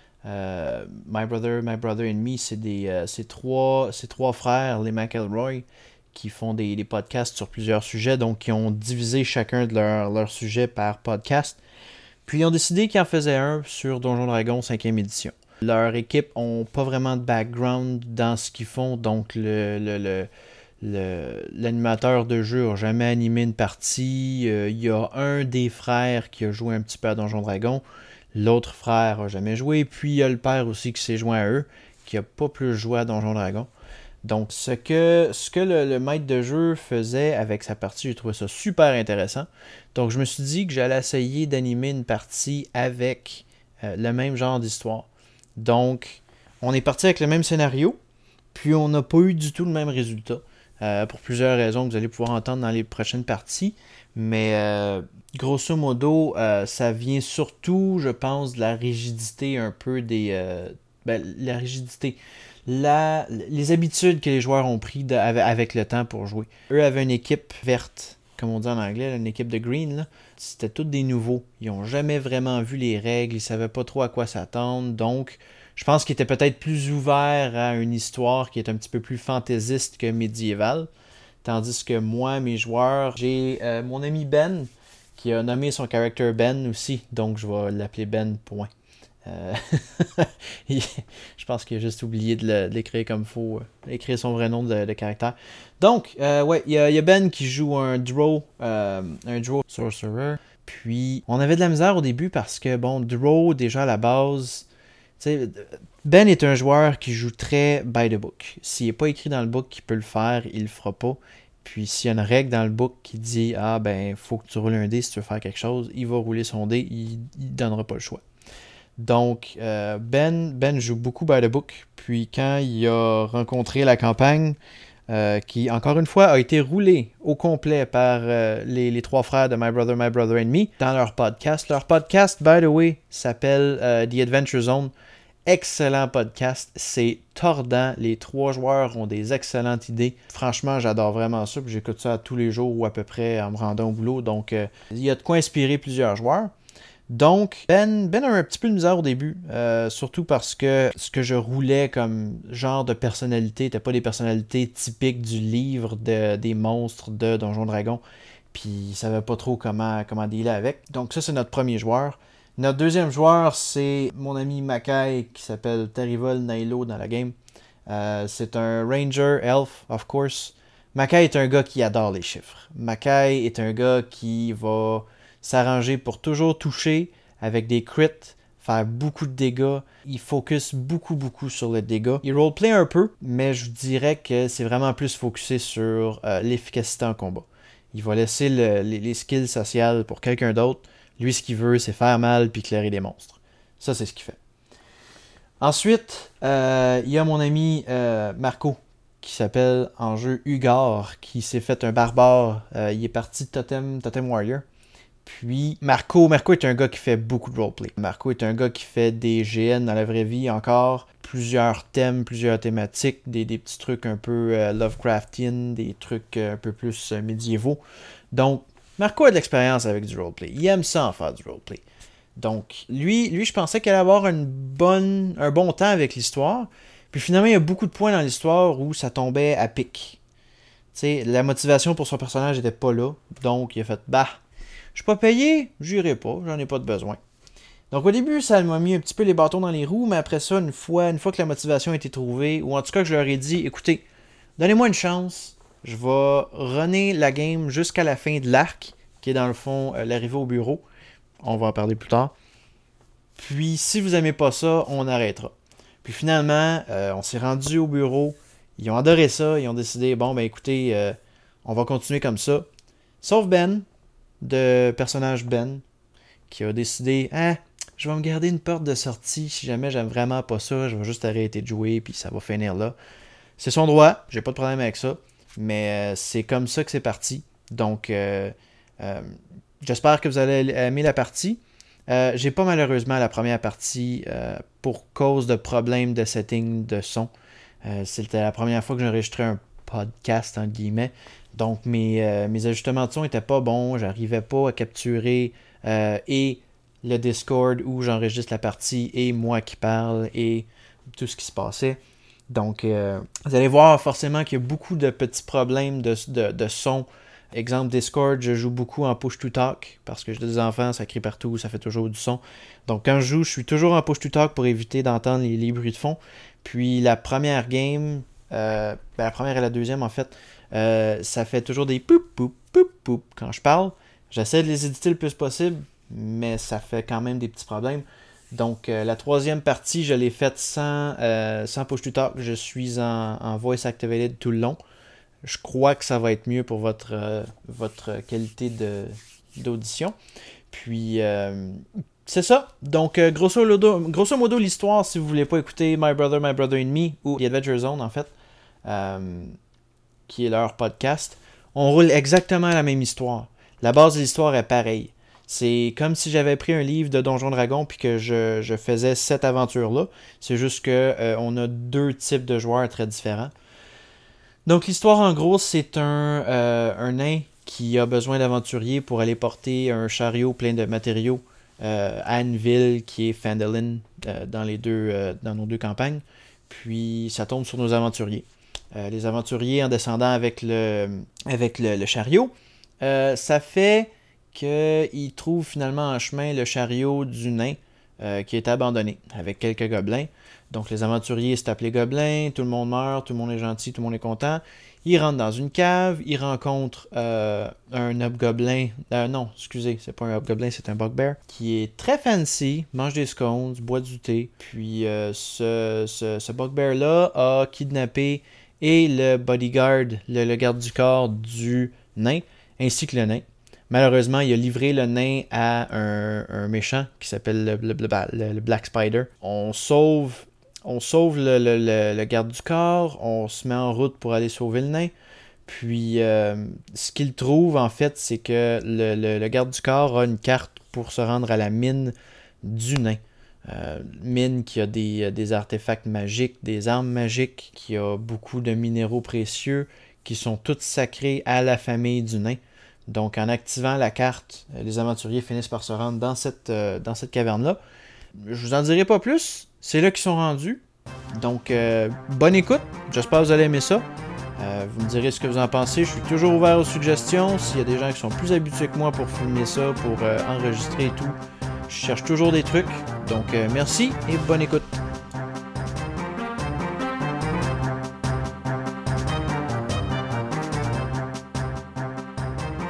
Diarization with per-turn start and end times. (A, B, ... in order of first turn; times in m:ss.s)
0:00.2-0:11.6 A
0:12.3-0:20.3 A
0:20.8-0:27.8 A
0:28.3-0:33.7 A
0:34.2-0:48.0 A
0:48.5-1:20.9 A
1:21.4-1:28.7 A
1:29.2-1:44.7 A
1:45.2-1:58.2 A
1:59.0-2:04.6 A
2:05.1-2:14.9 A
2:15.5-2:26.5 A
2:27.1-2:38.0 A
2:38.5-2:47.4 A
2:47.9-3:14.4 A
3:15.6-3:24.6 A
3:25.2-3:37.8 A
3:38.3-3:41.8 A
3:42.4-3:50.2 A
3:50.9-3:54.4 A
3:55.0-3:57.2 A
3:57.9-4:04.0 A
4:04.6-4:10.8 A
4:11.4-4:12.3 A
4:13.4-4:22.7 A
4:23.2-4:23.9 A
4:24.4-4:25.8 A
4:26.5-4:33.0 A
4:33.6-4:47.3 A
4:47.8-5:34.8 A
5:35.4-5:40.2 A
5:40.7-5:48.3 A
5:48.8-5:49.6 A
5:50.3-6:03.5 A
6:04.7-7:05.1 A
7:05.7-7:27.8 A
7:28.4-7:30.8 A
7:31.3-7:34.0 A
7:34.6-7:44.9 A